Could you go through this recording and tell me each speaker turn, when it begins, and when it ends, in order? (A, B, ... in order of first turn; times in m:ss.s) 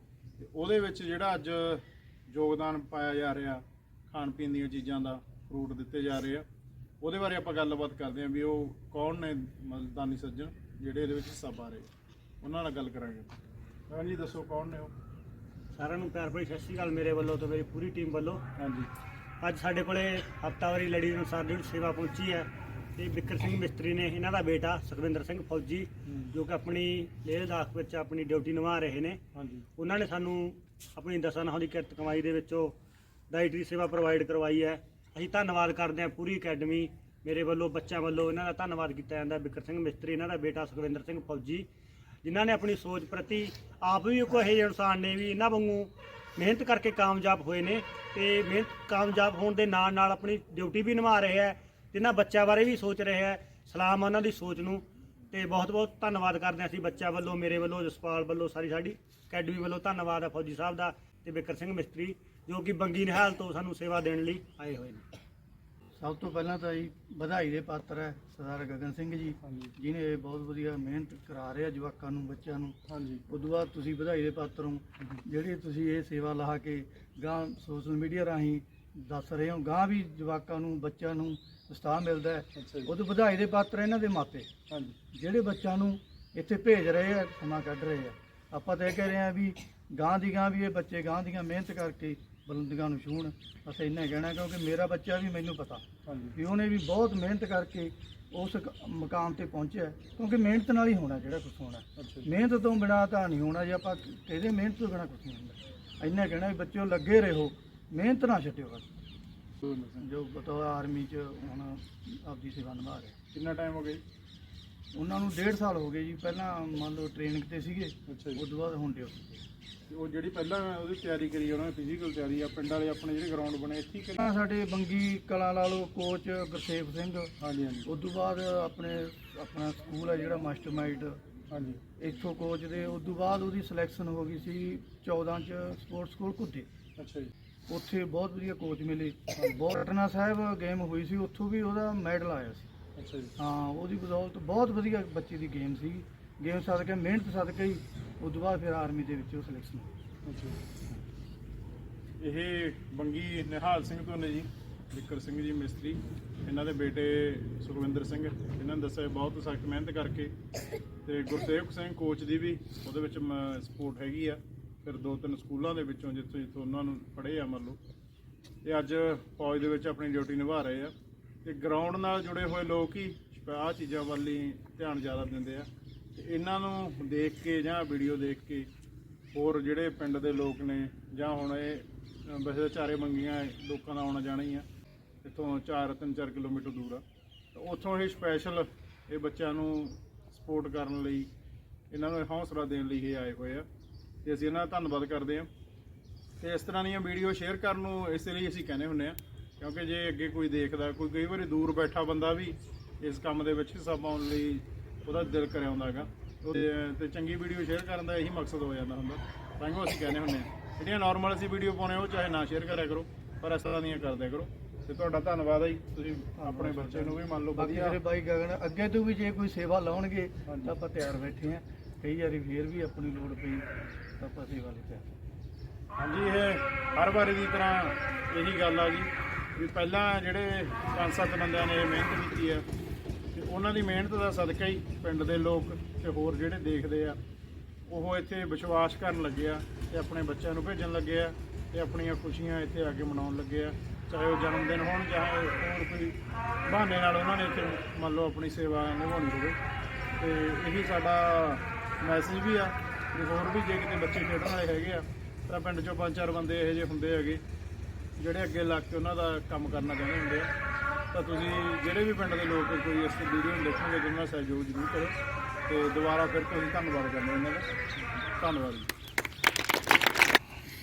0:00.4-0:06.5 A
0:07.0-0:11.9 A
0:12.4-0:13.3 A
0:13.9-0:14.9 A
0:15.7-0:18.4 B
0:18.6-0:18.9 A
0:19.4-0:29.2 B
0:29.4-0:29.7 A
0:29.8-0:32.8 B
0:33.3-0:41.7 B
0:42.2-1:05.1 B
1:06.0-1:12.8 C
1:09.4-1:09.7 A
1:12.9-1:13.2 A
1:13.3-1:24.5 C
1:22.6-1:22.9 A
1:24.7-1:25.0 A
1:25.1-1:48.9 C
1:36.1-1:36.4 A
1:42.0-1:42.3 A
1:49.6-1:50.0 A
1:50.0-1:53.2 C
1:53.3-1:54.0 A
1:54.9-1:59.4 C
1:58.1-1:58.4 A
1:59.9-2:04.2 A
2:04.2-2:07.3 C
2:07.4-2:07.9 A
2:07.8-2:11.2 C
2:11.5-2:11.8 A
2:12.0-2:16.7 C
2:17.0-2:17.3 A
2:17.7-2:22.7 C
2:23.0-2:23.3 A
2:23.4-2:29.9 C
2:30.3-2:30.6 A
2:32.2-2:40.3 A
2:41.0-2:47.8 A
2:48.6-2:58.7 A
2:59.3-3:04.7 A
3:05.2-3:11.3 A
3:11.9-3:13.7 A
3:14.2-3:15.5 A
3:16.4-3:38.0 A
3:36.4-3:43.7 C
3:40.5-3:40.7 A
3:44.2-3:45.1 C
3:46.0-3:52.7 A
3:53.3-3:57.2 A
3:57.9-4:09.6 A
4:10.2-4:17.4 A
4:18.2-4:20.5 A
4:21.1-4:27.7 A
4:28.4-4:28.9 A